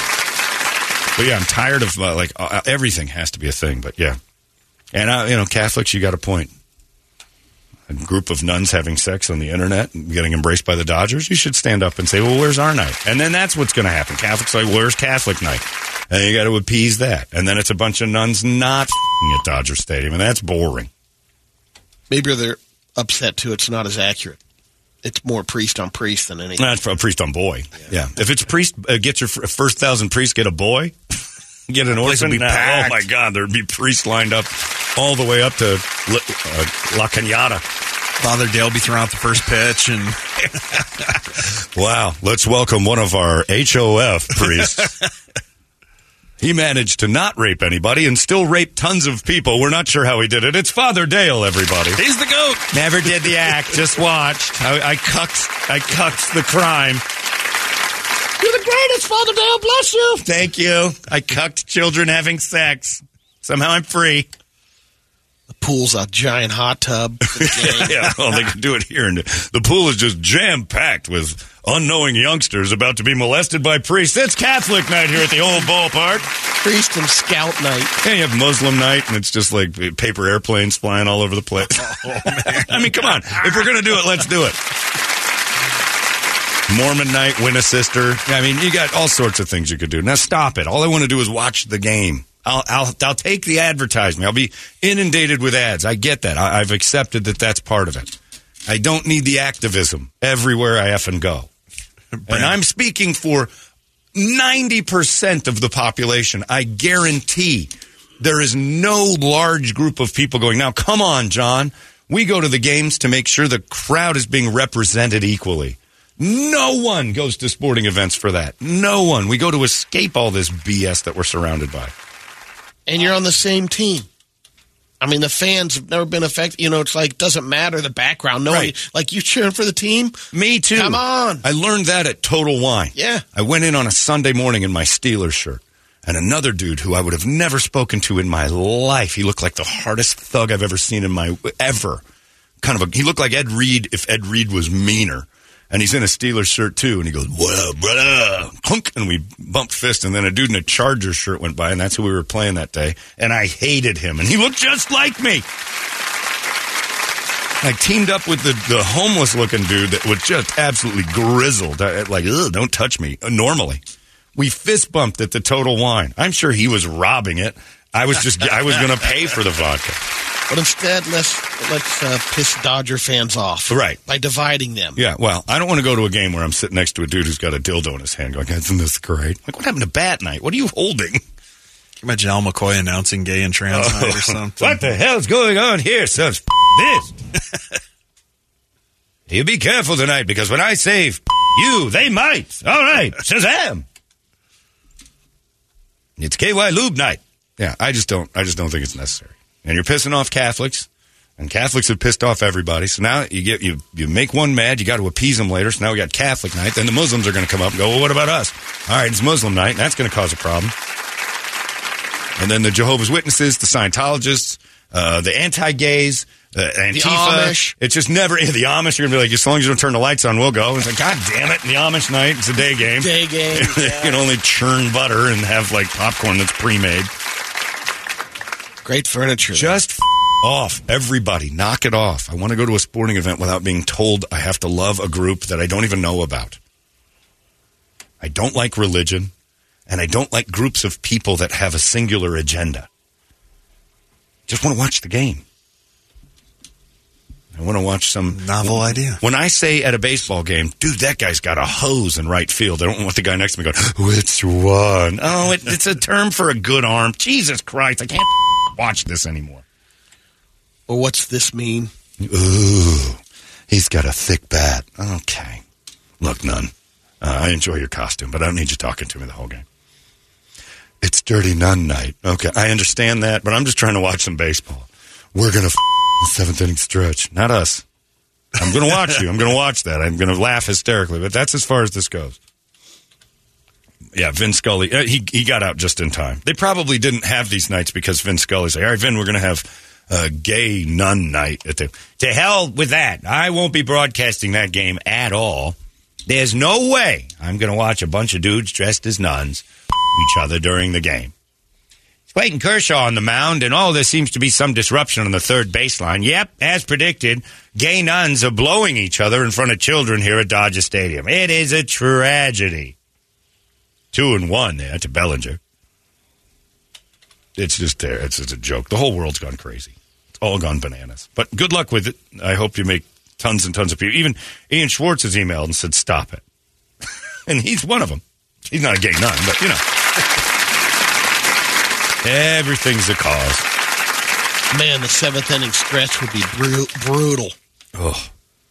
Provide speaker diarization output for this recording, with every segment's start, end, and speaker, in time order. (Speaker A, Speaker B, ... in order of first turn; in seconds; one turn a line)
Speaker A: 1.2-4.2
Speaker A: 4.9-6.5
Speaker A: 7.9-20.9
Speaker B: 22.1-24.4
Speaker B: 25.0-26.7
Speaker A: 26.6-31.1
Speaker A: 31.7-37.6
Speaker C: 32.0-33.1
Speaker C: 38.2-40.8
Speaker A: 41.6-45.0
Speaker A: 46.4-52.0
Speaker C: 52.0-52.6
Speaker A: 52.7-57.0
Speaker B: 58.4-60.2
Speaker A: 60.2-64.3
Speaker B: 65.6-68.2
Speaker A: 67.3-76.3
Speaker B: 76.6-78.0
Speaker A: 78.0-84.6
Speaker C: 81.8-83.1
Speaker A: 86.7-98.2
Speaker A: 98.7-101.5
Speaker C: 102.1-102.5
Speaker A: 102.3-103.5
Speaker A: 104.2-121.9
Speaker B: 122.9-124.1
Speaker B: 125.0-130.2
Speaker A: 128.5-128.8
Speaker A: 130.3-142.0
Speaker B: 130.8-131.4
Speaker B: 132.9-133.2
Speaker A: 142.6-155.4
Speaker A: 157.6-163.8
Speaker A: 164.4-170.0
Speaker B: 170.5-175.0
Speaker A: 173.7-174.0
Speaker A: 175.0-181.2
Speaker C: 182.0-184.8
Speaker A: 183.7-187.2
Speaker A: 189.3-193.8
Speaker A: 196.2-210.7
Speaker A: 212.4-227.1
Speaker B: 216.9-217.8
Speaker B: 223.0-224.2
Speaker B: 228.8-229.8
Speaker A: 229.5-236.6
Speaker A: 238.2-239.3
Speaker A: 239.9-242.9
Speaker A: 244.5-245.4
Speaker A: 247.6-259.6
Speaker C: 248.3-249.2
Speaker B: 260.9-261.9
Speaker A: 262.2-265.6
Speaker A: 266.2-269.6
Speaker A: 271.0-277.9
Speaker A: 278.6-282.4
Speaker A: 284.1-295.8
Speaker A: 296.3-301.3
Speaker A: 302.3-312.9
Speaker A: 314.1-315.6
Speaker A: 317.6-326.4
Speaker A: 327.5-329.8
Speaker A: 332.2-333.6
Speaker B: 334.7-337.6
Speaker A: 337.9-338.3